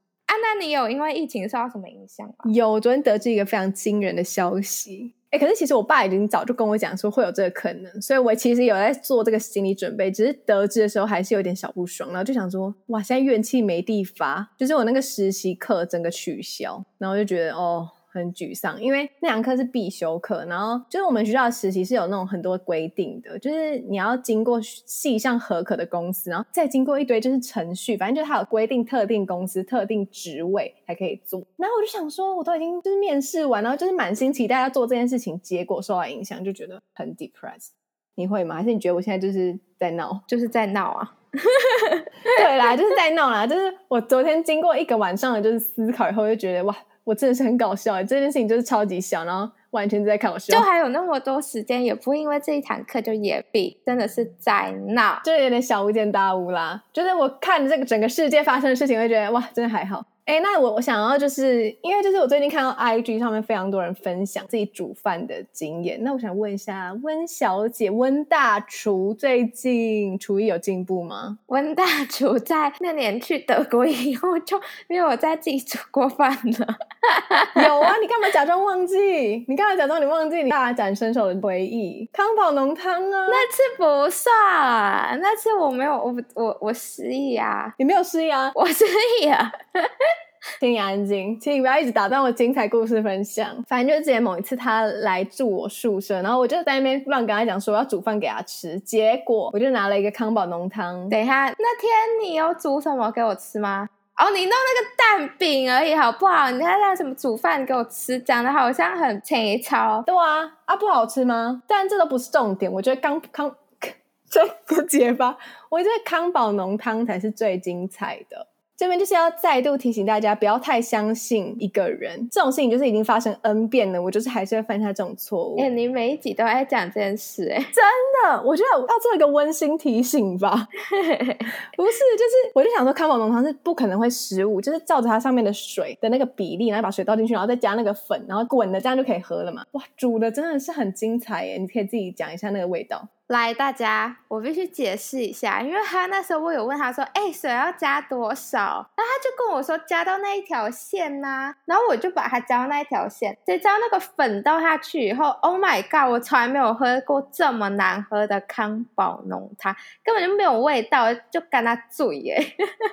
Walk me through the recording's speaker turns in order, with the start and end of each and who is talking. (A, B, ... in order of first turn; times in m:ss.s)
0:00.3-0:02.5 A
0:02.4-0:40.2 B
0:40.3-0:42.4 A
0:42.3-0:50.7 B
0:50.5-0:55.2 A
0:55.2-1:11.4 B
1:11.5-1:17.9 A
1:17.5-1:23.4 B
1:23.3-1:27.7 A
1:27.8-1:28.5 B
1:28.5-1:29.9 A
1:30.6-1:41.1 B
1:41.1-1:50.0 A
1:50.1-2:05.7 B
2:05.6-2:07.7 A
2:07.7-2:10.7 B
2:11.0-2:11.5 A
2:11.8-2:23.1 B
2:23.3-2:42.4 A